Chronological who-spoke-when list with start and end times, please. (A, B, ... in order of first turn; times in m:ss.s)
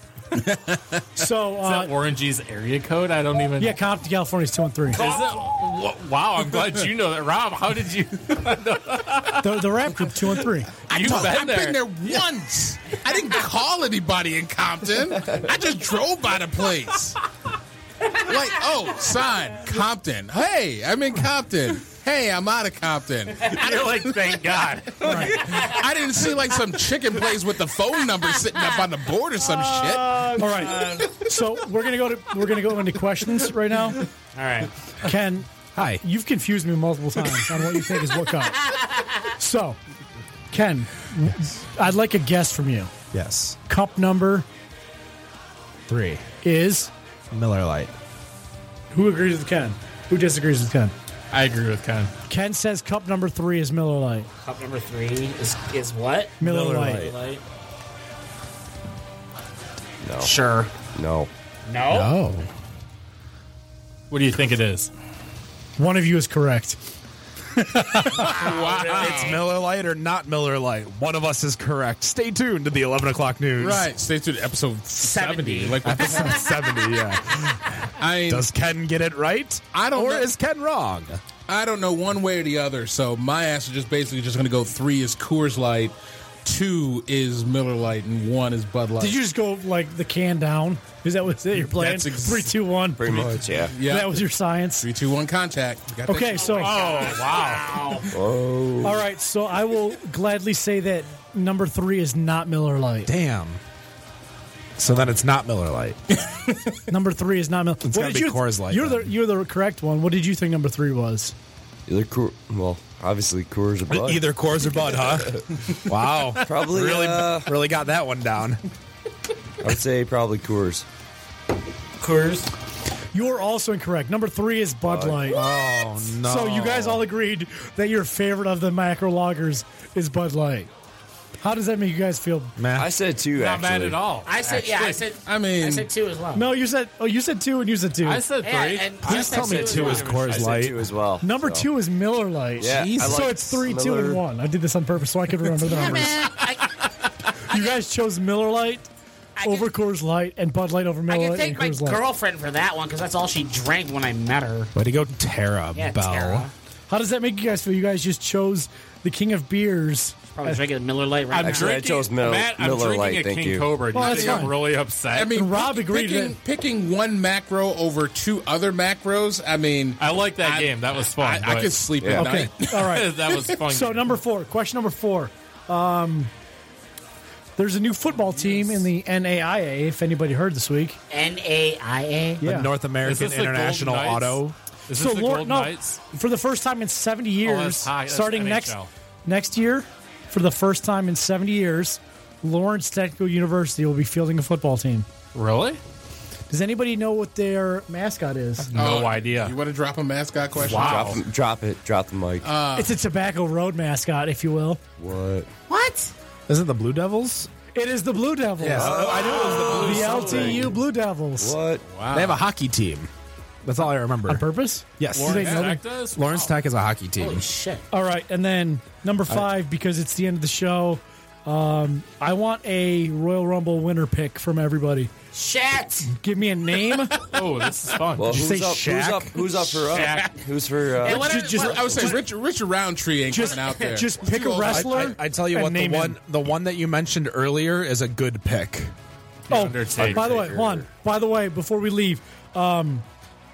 0:00.4-0:01.0 A
0:01.2-0:01.9 B
0:01.6-0:03.8 C
0:03.6-0:05.0 B
0:04.9-0:09.9 C
0:04.9-0:05.4 D
0:09.4-0:10.7 B
0:10.9-0:12.3 C
0:10.9-0:17.2 A
0:18.2-0:31.2 A
0:23.4-0:25.7 C
0:25.0-0:25.4 B
0:25.4-0:25.9 D
0:29.5-0:31.1 D
0:30.3-0:34.1 B
0:34.4-0:34.7 D
0:35.0-0:35.5 B
0:35.7-0:36.0 E
0:36.0-0:39.8 B
0:38.7-0:39.1 D
0:40.5-0:42.9 B
0:43.1-0:43.6 E
0:43.7-0:44.5 B
0:45.9-0:46.2 E
0:46.4-0:46.9 B
0:47.3-0:47.9 E
0:48.9-0:50.9 B
0:51.3-0:52.1 C
0:52.3-0:54.3 B
0:54.4-0:56.4 D
0:56.4-0:57.1 B
0:56.4-0:57.2 E
0:56.9-0:57.4 D
1:00.0-1:01.3 F
1:00.2-1:00.7 D
1:01.7-1:02.2 D
1:01.9-1:02.5 E
1:04.1-1:04.9 C
1:05.8-1:06.8 B
1:08.0-1:09.4 A
1:08.1-1:09.4 D
1:08.9-1:13.9 E
1:13.6-1:16.5 A
1:14.9-1:17.1 D
1:15.8-1:21.2 E
1:18.0-1:18.5 A
1:19.7-1:20.3 A
1:21.5-1:29.2 A
1:29.0-1:34.9 B
1:31.6-1:34.3 A
1:33.0-1:33.8 F
1:34.8-1:37.2 A
1:36.1-1:36.8 B
1:36.4-1:38.1 D
1:36.5-1:38.0 C
1:38.1-1:39.0 F
1:38.8-1:43.1 B
1:43.1-1:43.6 E
1:44.8-1:46.0 E
1:46.9-1:51.3 B
1:47.8-1:49.1 E
1:51.9-1:54.3 F
1:53.9-1:58.6 E
1:56.4-1:57.5 F
1:59.6-2:00.9 F
2:02.0-2:02.5 D
2:03.1-2:10.7 B
2:04.8-2:05.4 F
2:05.3-2:07.1 E
2:11.4-2:12.6 B
2:12.6-2:12.9 E
2:12.8-2:14.1 F
2:13.3-2:15.0 C
2:14.2-2:16.5 D
2:15.2-2:15.9 A
2:16.4-2:18.2 B
2:18.0-2:20.6 C
2:18.4-2:20.2 D
2:19.0-2:20.8 E
2:19.2-2:21.7 F
2:21.2-2:26.2 B
2:22.6-2:24.2 F
2:22.7-2:23.1 E
2:22.8-2:23.1 A
2:25.6-2:27.8 D
2:27.5-2:28.9 B
2:29.4-2:29.7 D
2:29.4-2:32.0 B
2:31.1-2:34.7 D
2:34.8-2:36.5 E
2:35.7-2:36.5 D
2:36.9-2:40.6 B
2:40.4-2:41.9 D
2:41.3-2:45.4 C
2:41.4-2:43.7 F
2:43.9-2:44.6 B
2:44.0-2:44.5 A
2:45.1-2:53.5 A
2:45.3-2:46.4 B
2:50.0-2:51.8 C
2:52.0-2:52.3 F
2:52.2-2:53.1 B
2:52.7-2:54.2 C
2:53.7-2:56.3 B
2:57.6-3:01.0 B
2:58.5-2:58.8 C
3:01.1-3:02.4 D
3:02.4-3:02.7 B
3:02.4-3:04.6 E
3:03.0-3:06.0 C
3:04.9-3:15.1 B
3:07.4-3:08.9 C
3:15.3-3:15.8 C
3:16.5-3:18.7 B
3:18.7-3:19.6 C
3:18.7-3:21.2 A
3:20.6-3:21.2 C
3:20.6-3:22.5 F
3:22.4-3:22.9 A
3:22.8-3:24.8 B
3:25.0-3:25.5 F
3:25.7-3:26.1 D
3:26.5-3:27.5 E
3:27.7-3:31.6 B
3:28.6-3:30.7 E
3:28.7-3:30.7 F
3:29.1-3:30.6 D
3:31.4-3:31.8 F
3:31.9-3:32.4 A
3:32.1-3:33.1 E
3:33.6-3:34.5 E
3:34.3-3:35.7 B
3:35.0-3:37.5 E
3:35.2-3:36.5 C
3:37.2-3:37.8 D
3:37.9-3:45.1 B
3:45.3-3:46.1 D
3:46.1-3:47.3 B
3:47.2-3:48.5 C
3:48.2-3:51.4 F
3:48.3-3:50.1 E
3:49.9-3:50.4 C
3:51.0-3:52.3 D
3:51.1-3:55.1 A
3:51.2-3:52.2 B
3:53.3-3:56.2 B
3:53.5-3:54.0 D
3:54.6-3:58.9 E
3:59.5-4:00.3 C
3:59.5-4:03.0 B
4:00.0-4:00.9 F